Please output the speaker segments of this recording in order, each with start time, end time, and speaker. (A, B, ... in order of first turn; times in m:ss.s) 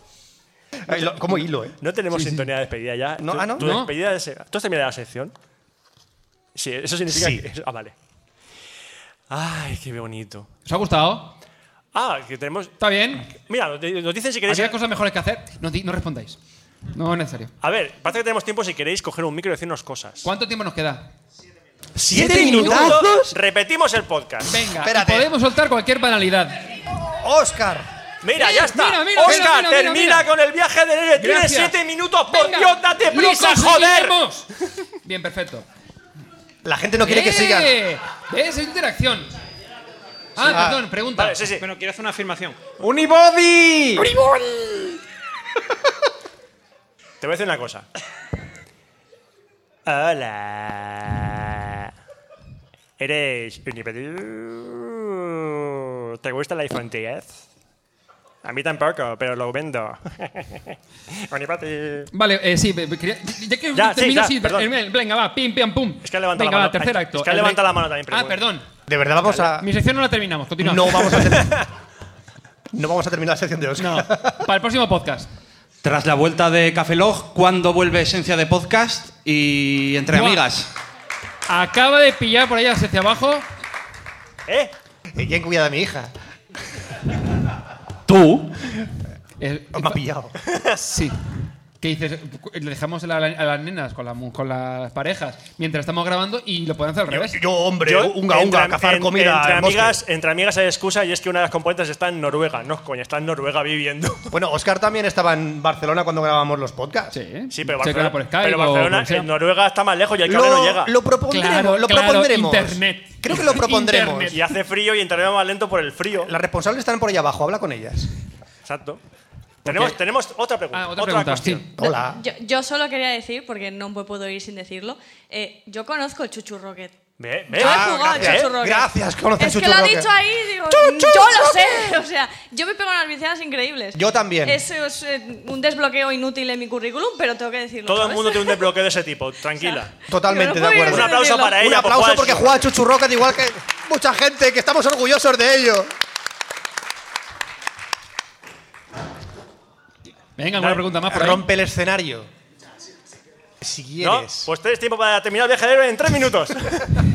0:00.9-0:01.8 A
0:00.9-0:05.3 B
0:02.1-0:02.5 C
0:03.2-0:03.7 A
0:03.6-0:03.9 C
0:06.6-0:07.9 B
0:07.1-0:07.4 A
0:09.3-0:10.5 B
0:10.7-0:11.3 C
0:11.9-0:12.8 B
0:12.8-0:13.3 C
0:13.3-0:14.8 B
0:14.5-0:16.4 C
0:16.9-0:17.5 C
0:17.6-0:20.3 B
0:20.2-0:21.1 C
0:22.0-0:23.3 A
0:22.1-0:23.1 C
0:22.1-0:24.6 B
0:24.5-0:26.6 C
0:24.8-0:25.3 A
0:27.1-0:27.9 A
0:28.2-0:34.2 B
0:28.4-0:30.3 C
0:31.2-0:31.8 C
0:32.3-0:34.5 C
0:35.0-0:35.6 C
0:36.6-0:37.7 A
0:37.0-0:39.3 C
0:40.4-0:41.6 C
0:40.4-0:40.8 A
0:41.2-0:41.6 B
0:41.6-0:42.7 D
0:44.0-0:45.0 A
0:47.2-0:47.9 B
0:49.9-0:51.9 B
0:53.0-0:57.4 B
0:58.4-1:02.1 B
1:02.1-1:08.7 C
1:03.8-1:04.7 B
1:06.0-1:08.4 B
1:08.9-1:09.7 A
1:09.6-1:11.4 C
1:10.6-1:11.7 A
1:12.7-1:14.4 A
1:13.8-1:15.3 C
1:15.8-1:20.7 D
1:20.1-1:20.4 C
1:21.5-1:23.4 C
1:24.5-1:24.7 B
1:25.1-1:26.1 A
1:28.1-1:28.6 D
1:29.4-1:30.0 C
1:29.8-1:30.4 A
1:30.8-1:37.4 C
1:37.1-1:40.0 A
1:37.8-1:44.3 B
1:44.3-1:47.1 A
1:47.1-1:49.3 C
1:47.5-1:51.0 B
1:50.3-1:54.4 A
1:51.3-1:54.4 C
1:54.3-1:56.3 B
1:56.3-1:58.1 A
1:58.7-1:59.0 B
1:59.6-2:01.6 B
1:59.7-1:59.9 C
2:00.7-2:01.6 C
2:01.8-2:02.2 A
2:01.8-2:07.0 E
2:07.2-2:08.5 B
2:07.5-2:18.7 E
2:07.6-2:10.1 A
2:10.7-2:12.0 A
2:14.0-2:14.6 A
2:17.9-2:19.9 B
2:19.6-2:21.6 E
2:20.1-2:25.9 A
2:20.8-2:22.7 B
2:30.4-2:31.4 C
2:31.1-2:32.3 A
2:33.6-2:34.5 A
2:34.0-2:36.9 B